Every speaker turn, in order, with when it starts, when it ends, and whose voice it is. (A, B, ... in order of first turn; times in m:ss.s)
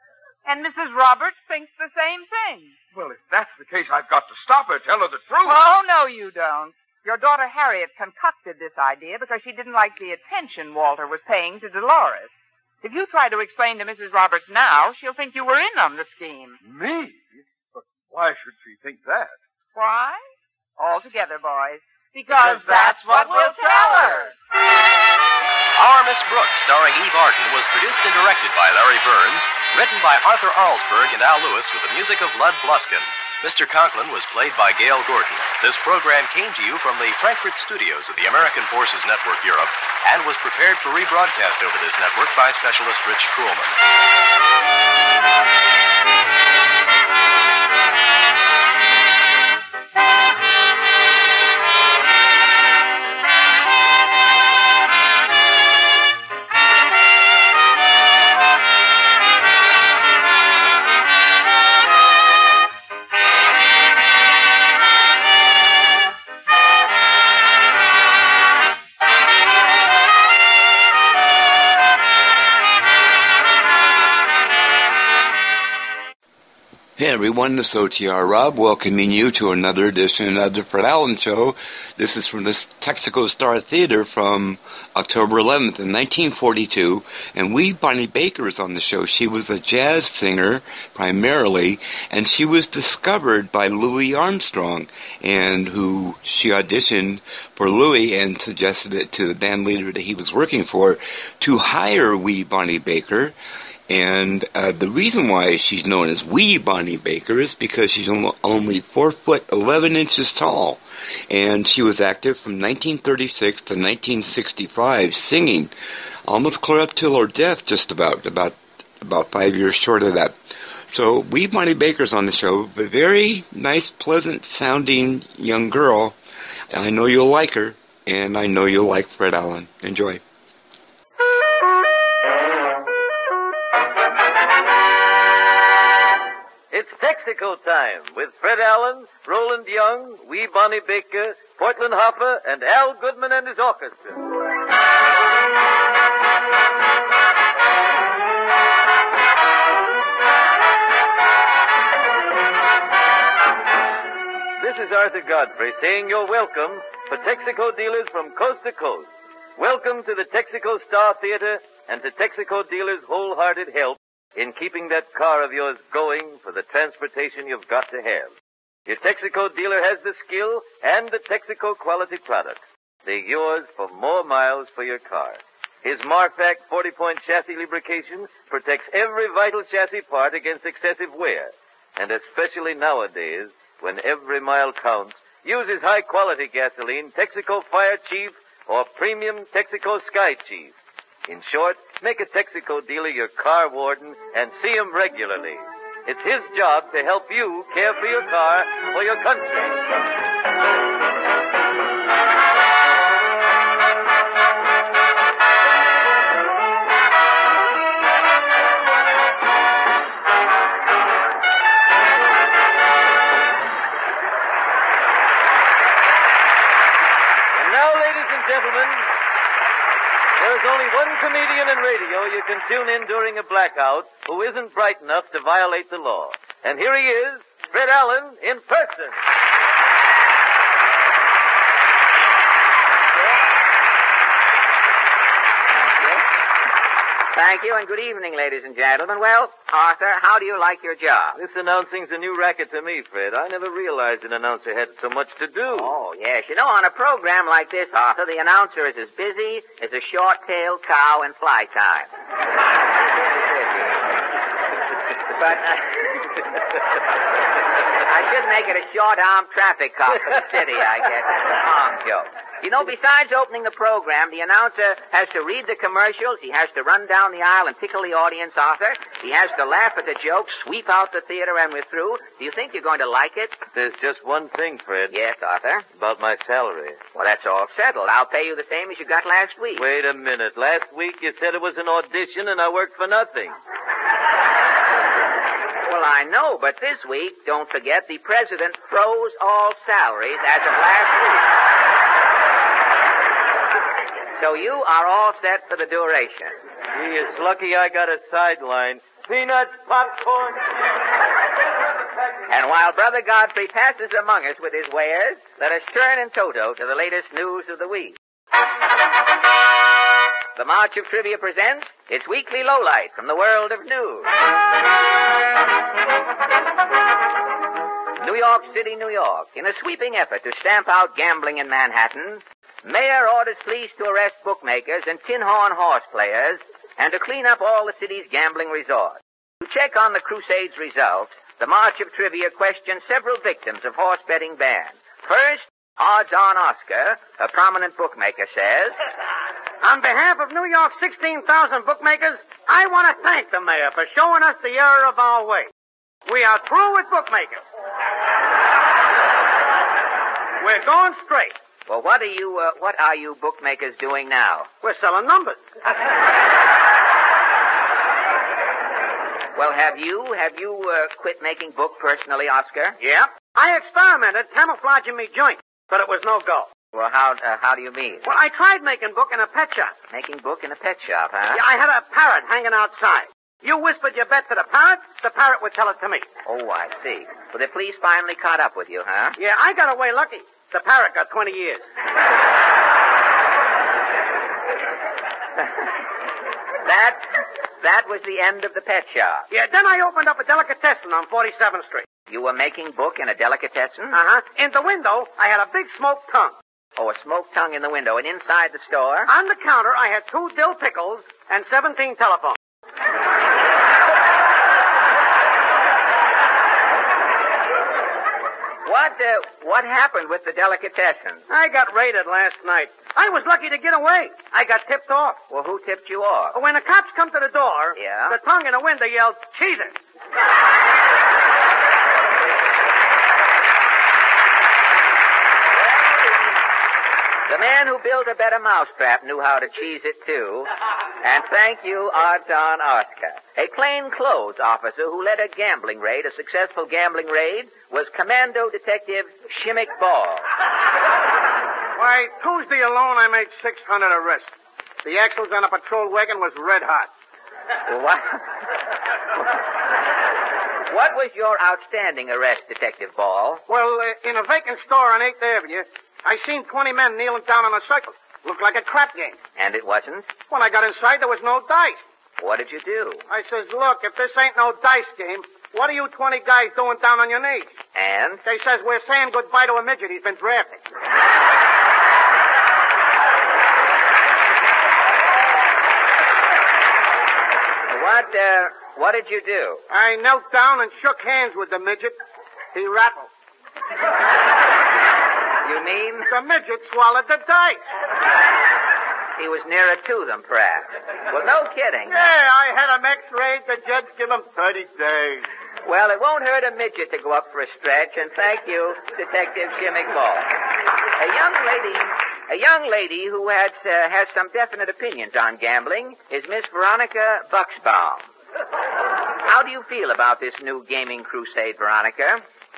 0:00.4-0:02.8 A
0:02.9-0:05.6 B
0:05.4-0:16.6 A
0:16.6-0:19.4 B
0:19.7-0:20.2 A
0:20.8-0:24.3 A
0:25.7-0:43.7 C
1:17.0-1:43.3 D
1:43.9-1:55.7 D
1:56.2-2:00.4 D
2:00.9-2:06.1 D
2:06.7-2:10.2 D
2:16.7-2:24.2 E
2:34.6-2:48.3 E
2:48.9-3:10.7 E
3:11.3-3:19.8 E
3:37.5-3:39.1 E
3:40.4-3:49.2 E
3:55.7-3:56.2 F
3:57.3-4:01.4 F
4:01.3-4:05.9 E
4:05.7-4:12.1 F
4:13.0-4:14.0 F
4:15.3-4:16.4 F
4:18.1-4:33.6 F
4:33.7-4:35.2 E
4:35.1-4:35.8 F
4:35.9-4:37.0 E
4:37.1-4:39.8 F
4:39.7-4:43.6 E
4:45.8-4:51.5 F
4:54.4-4:56.5 F
4:56.9-5:00.6 E
5:02.5-5:08.2 F
5:10.6-5:14.3 F
5:18.2-5:39.0 F
5:39.8-5:45.7 G
5:46.2-5:47.6 G
5:50.6-5:51.5 G
5:51.9-5:54.7 F
5:54.8-5:55.6 G
5:59.6-6:03.0 F
6:03.0-6:06.7 G
6:06.9-6:08.3 F
6:08.2-6:09.9 G
6:10.1-6:11.6 F
6:11.5-6:16.2 G
6:16.4-6:19.4 F
6:19.4-6:21.8 G
6:26.8-6:27.2 F
6:27.8-6:29.5 F
6:29.5-6:32.0 G
6:32.3-6:34.2 F
6:34.1-6:36.5 G
6:37.0-6:39.3 F
6:39.2-6:42.6 G
6:48.8-6:51.4 F
6:51.5-6:55.4 G
6:55.5-6:56.6 F
6:56.5-6:59.9 G
6:57.9-6:58.4 F
7:05.7-7:06.6 F
7:07.5-7:10.7 F
7:11.2-7:20.4 F
7:22.0-7:24.5 G
7:25.0-7:27.1 G
7:27.9-7:28.4 F
7:30.9-7:33.6 F
7:33.7-7:39.4 G
7:39.6-7:40.4 F
7:40.5-7:42.0 G
7:42.4-7:43.2 F
7:43.3-7:47.7 G
7:47.9-7:48.4 F
7:48.4-7:50.8 G
7:57.9-7:59.8 F
7:59.9-8:02.1 G
8:02.7-8:03.3 G
8:05.6-8:06.3 F
8:06.3-8:07.8 G
8:09.4-8:12.3 F
8:12.1-8:15.0 G
8:15.8-8:20.5 F
8:21.2-8:28.2 F
8:29.4-8:32.4 F